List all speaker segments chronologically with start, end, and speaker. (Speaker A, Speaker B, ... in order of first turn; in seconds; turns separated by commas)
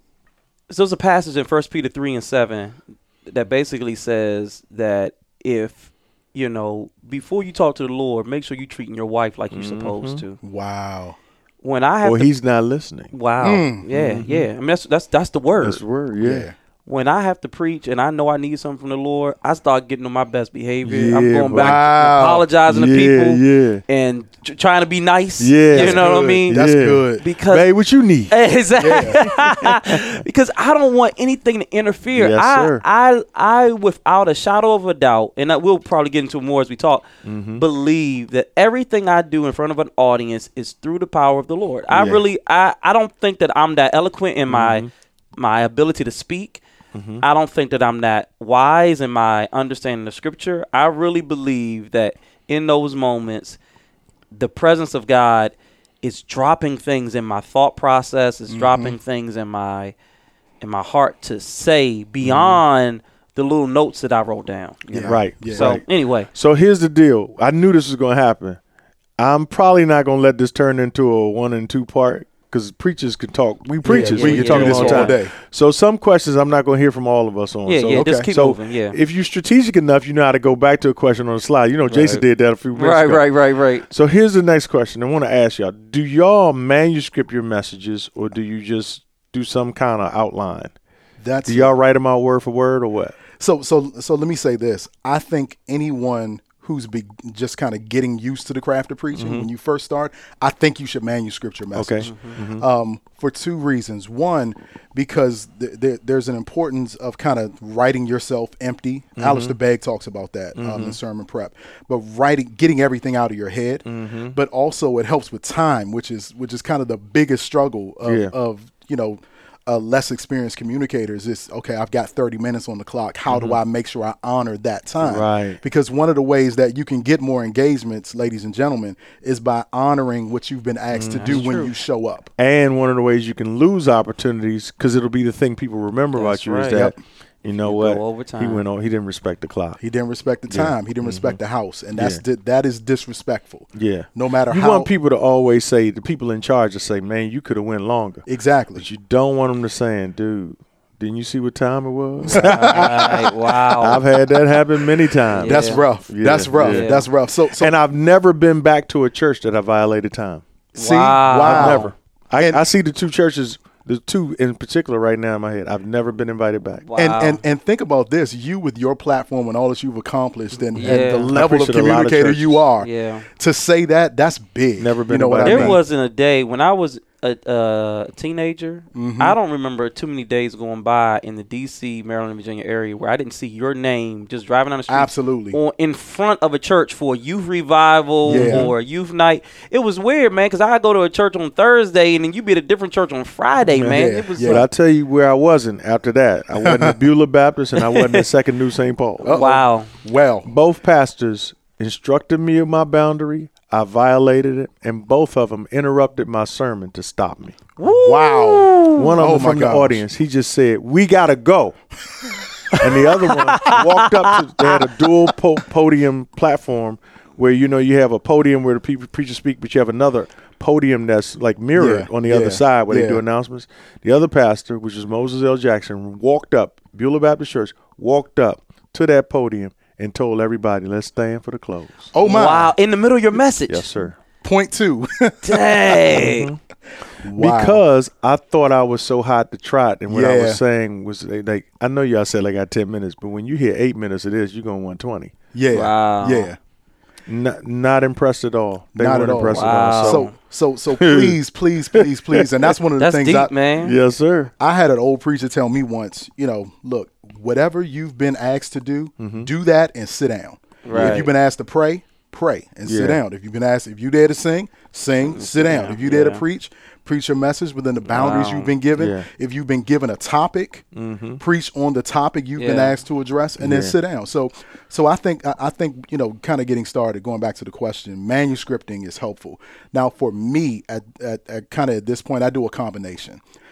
Speaker A: 0.7-10.4, Speaker B: 9.5-10.2, Speaker C: 10.4-11.2, Speaker A: 11.6-12.3, Speaker B: 12.0-13.1, Speaker A: 13.1-15.8, Speaker C: 13.4-13.8, Speaker B: 13.9-14.5, Speaker B: 15.6-16.5, Speaker C: 16.2-16.5, Speaker A: 16.8-26.6, Speaker B: 20.8-21.8, Speaker C: 21.5-22.4, Speaker B: 22.7-23.8, Speaker B: 25.4-28.4, Speaker C: 25.7-27.2, Speaker A: 27.2-27.7, Speaker A: 28.3-37.1, Speaker C: 28.8-29.2, Speaker B: 29.2-30.2, Speaker B: 32.1-32.8, Speaker B: 37.2-37.6, Speaker A: 37.6-46.6, Speaker B: 41.9-42.2, Speaker B: 44.5-44.9, Speaker B: 46.9-47.2, Speaker A: 47.2-53.6, Speaker A: 54.3-59.9, Speaker C: 58.5-59.0, Speaker A: 60.6-66.3, Speaker B: 62.2-62.6, Speaker C: 64.9-65.8, Speaker B: 65.0-68.6, Speaker B: 69.2-83.3, Speaker C: 73.8-75.3, Speaker A: 73.8-75.2, Speaker A: 77.7-79.0, Speaker C: 77.9-78.3, Speaker A: 81.9-82.2, Speaker A: 82.7-83.9, Speaker B: 83.9-90.7, Speaker C: 91.2-91.7, Speaker B: 91.5-93.2, Speaker C: 93.4-132.3, Speaker B: 99.1-99.5, Speaker B: 101.7-102.6, Speaker A: 102.0-102.3, Speaker B: 109.2-109.5, Speaker B: 110.5-111.0, Speaker B: 113.8-114.3, Speaker B: 118.0-118.3, Speaker B: 123.3-123.6, Speaker B: 125.0-125.6, Speaker B: 130.9-131.5, Speaker A: 131.2-131.7, Speaker B: 132.4-139.8, Speaker A: 136.1-136.9, Speaker A: 137.6-138.6, Speaker C: 139.8-144.9, Speaker B: 140.5-141.4, Speaker B: 141.9-142.2, Speaker B: 143.7-156.9, Speaker C: 148.2-148.8, Speaker C: 152.2-153.2, Speaker A: 152.3-154.0, Speaker A: 155.3-155.8, Speaker C: 155.4-157.7, Speaker A: 156.6-157.1, Speaker B: 157.5-160.4, Speaker C: 160.7-162.6, Speaker A: 160.8-161.9, Speaker B: 161.3-166.8, Speaker A: 166.8-167.4, Speaker C: 166.9-175.8, Speaker A: 170.7-171.3, Speaker B: 170.8-172.6, Speaker A: 172.8-173.2, Speaker B: 174.8-175.8, Speaker A: 175.4-194.7, Speaker C: 178.9-179.4, Speaker C: 184.9-185.6, Speaker B: 188.2-188.7, Speaker C: 188.3-188.7, Speaker B: 193.7-199.4, Speaker C: 193.8-194.7, Speaker C: 196.6-197.0, Speaker A: 197.8-198.2, Speaker C: 199.2-200.5, Speaker A: 199.3-199.9, Speaker B: 200.4-207.6, Speaker A: 207.8-209.1, Speaker C: 207.8-210.0, Speaker B: 208.9-211.7, Speaker B: 212.7-232.1, Speaker C: 212.8-213.4, Speaker A: 213.1-214.8, Speaker C: 221.7-223.2, Speaker C: 232.1-232.7, Speaker A: 232.2-234.0, Speaker B: 233.7-234.2, Speaker C: 234.4-236.2, Speaker A: 235.4-236.5, Speaker B: 236.1-236.6, Speaker C: 237.2-237.8, Speaker B: 237.3-245.3, Speaker C: 240.1-240.6, Speaker C: 245.5-246.6, Speaker A: 245.7-246.5, Speaker B: 247.3-250.3, Speaker C: 248.9-253.5, Speaker A: 249.5-250.3, Speaker B: 251.0-251.4, Speaker B: 251.9-252.7, Speaker A: 253.0-253.9, Speaker B: 253.8-254.5, Speaker C: 254.6-270.8, Speaker B: 259.2-259.5, Speaker A: 260.8-261.3, Speaker B: 260.9-261.2, Speaker B: 262.9-263.2, Speaker A: 265.2-266.4, Speaker A: 268.1-268.7, Speaker B: 269.0-269.2, Speaker B: 270.9-271.4, Speaker C: 271.4-283.4, Speaker A: 272.6-273.0, Speaker B: 273.6-273.9